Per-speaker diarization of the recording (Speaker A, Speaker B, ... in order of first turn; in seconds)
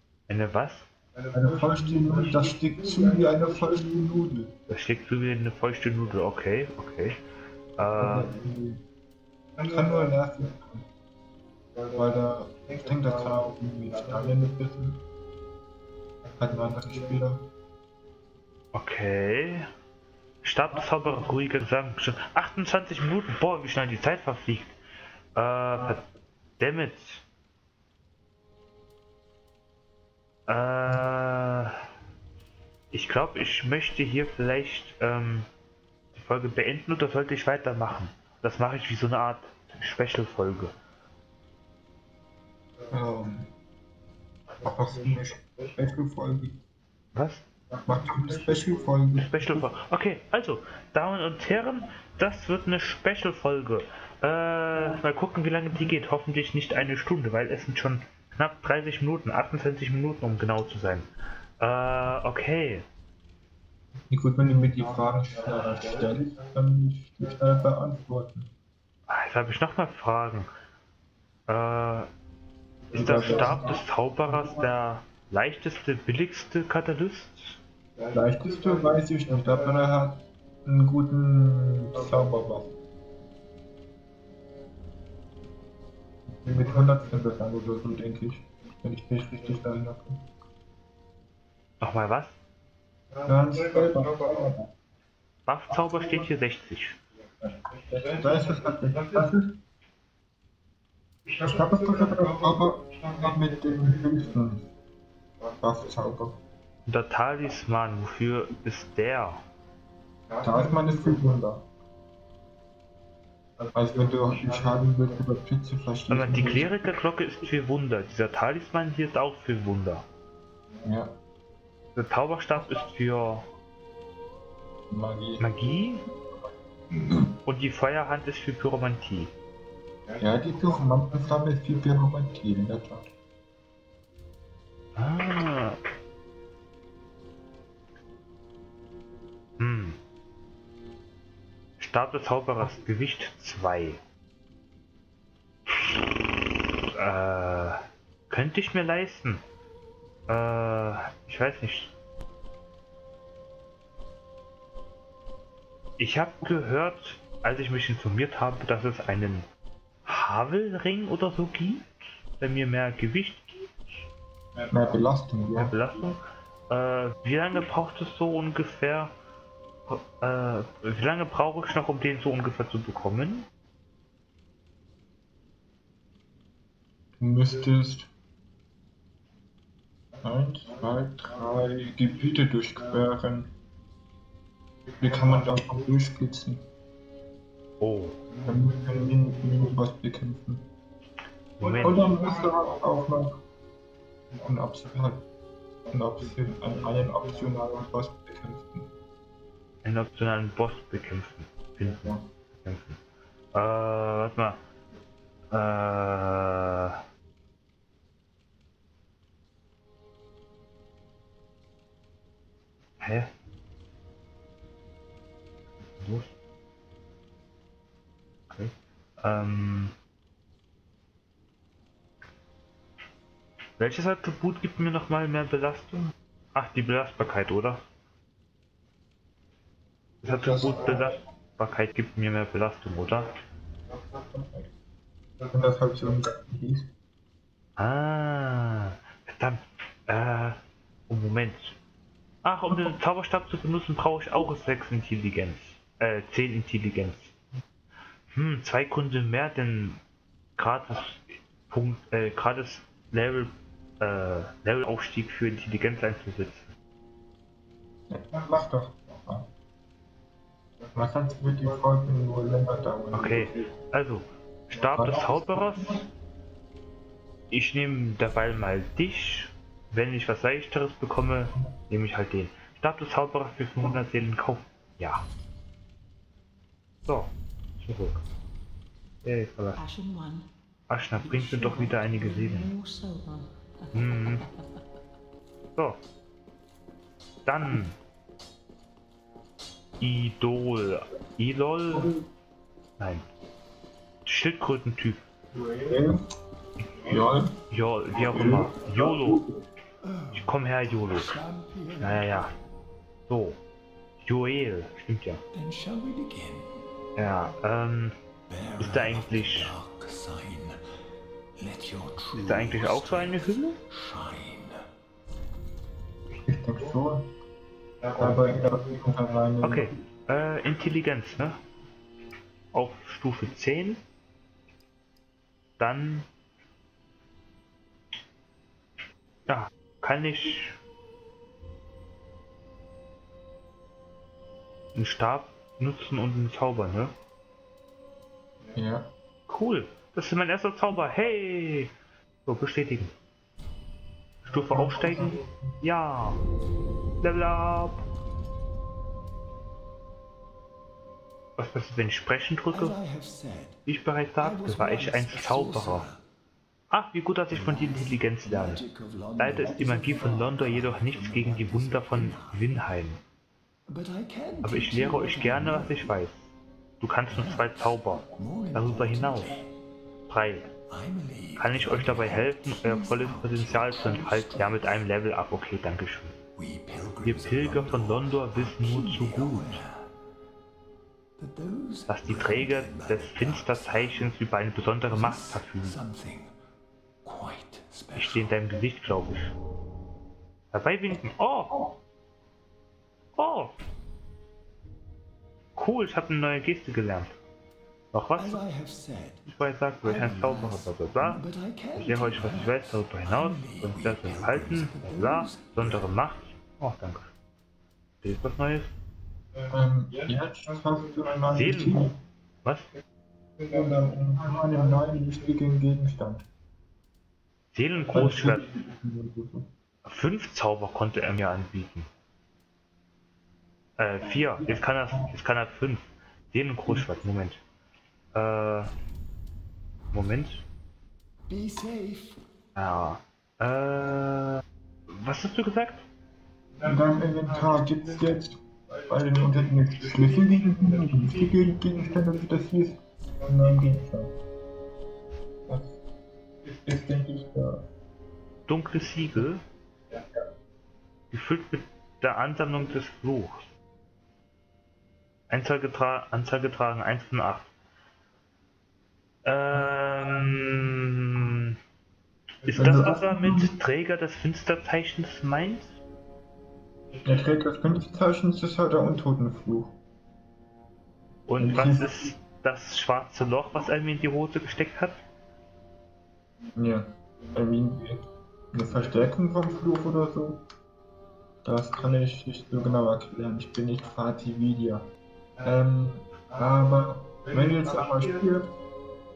Speaker A: 0.3-0.9, 4.7-7.2, 7.8-8.3, 18.7-19.7, 20.4-24.7, 25.3-26.0, 26.6-27.2, 30.5-31.8, 32.9-35.5, 36.1-40.7, 47.1-47.4, 49.1-61.0, 61.6-62.8, 69.1-70.5, 71.5-72.1, 72.9-77.6, 91.8-92.3, 95.5-97.0, 106.9-109.4, 116.1-120.0, 122.0-123.4, 125.4-126.0, 127.4-129.3, 134.9-135.8, 139.6-140.0, 141.8-144.0, 145.7-146.1, 146.9-149.4, 150.3-151.9, 156.0-159.4, 160.0-161.9, 162.4-163.7, 165.5-169.1, 169.9-173.4, 187.8-188.2, 191.6-192.2, 199.8-203.0, 203.5-204.6, 205.5-207.0, 213.0-213.3, 216.0-216.3, 218.5-219.9, 223.8-227.8, 230.2-233.3, 237.8-240.6, 241.1-241.8, 242.4-247.3, 248.3-250.0, 250.6-256.7, 263.1-266.1, 267.5-275.2, 277.1-278.2, 279.2-279.8, 280.9-282.7, 283.9-284.4, 287.4-287.9, 290.0-292.1, 293.0-293.2, 294.2-295.2, 297.7-299.4, 300.3-301.4, 302.0-302.5, 303.3-303.6, 304.2-305.4, 307.1-308.1, 308.8-309.7, 312.4-313.8, 318.2-318.4, 319.6-321.6, 322.7-324.0, 325.8-326.2, 329.5-330.8, 334.9-337.1, 339.5-341.9, 342.4-343.1, 344.4-346.4, 347.2-348.0, 351.6-353.0, 353.9-356.1, 356.9-358.8, 359.4-363.2, 364.6-366.4, 367.0-369.6, 370.3-370.7, 371.6-376.4, 377.2-379.8, 382.1-386.0, 388.1-389.5, 390.7-391.9, 393.4-393.7, 395.8-397.4, 398.1-398.6, 399.4-401.4, 402.0-407.3, 408.2-408.9, 411.5-412.9, 417.7-418.7, 420.0-422.1, 424.0-427.6, 428.3-428.9, 430.1-430.6, 432.8-436.0, 448.7-449.6, 451.3-453.7, 455.5-457.7, 459.4-461.8, 462.6-465.9, 471.5-475.2
Speaker B: 1.3-4.5, 7.9-8.8, 9.6-10.8, 11.9-15.0, 16.4-17.4, 42.9-43.5, 44.6-46.6, 47.8-49.7, 64.1-68.5, 72.9-73.8, 78.1-82.7, 86.4-90.2, 93.2-94.7, 97.4-99.5, 101.4-104.7, 105.6-106.4, 110.4-111.6, 113.7-116.8, 120.8-121.1, 124.9-125.4, 126.9-127.3, 130.2-133.1, 164.7-165.8, 177.2-178.1, 180.2-183.5, 185.0-186.6, 188.4-190.7, 191.7-193.4, 194.4-195.2, 195.9-198.9, 201.8-202.2, 230.2-231.2, 234.3-234.7, 235.5-236.9, 258.1-259.5, 260.9-263.7, 264.7-265.8, 295.9-296.2, 297.1-297.5, 298.1-299.5, 316.4-317.3, 318.1-319.9, 338.7-339.1, 344.7-345.6, 409.7-412.1, 413.6-416.4, 418.1-419.7, 436.8-444.3, 446.8-447.8, 462.7-463.7, 467.2-469.9, 471.6-472.1, 476.8-480.6, 481.6-485.1, 485.6-488.7
Speaker C: 279.8-280.5, 281.2-284.5
Speaker D: 300.0-302.5, 305.5-306.8, 308.5-310.8, 311.6-314.9, 352.7-353.8, 354.4-356.2, 357.5-362.7, 363.9-366.2, 367.3-369.7, 370.9-375.0, 376.6-380.1, 381.4-384.3, 385.1-386.5, 387.2-388.5, 398.4-399.4, 400.0-406.1, 431.5-432.4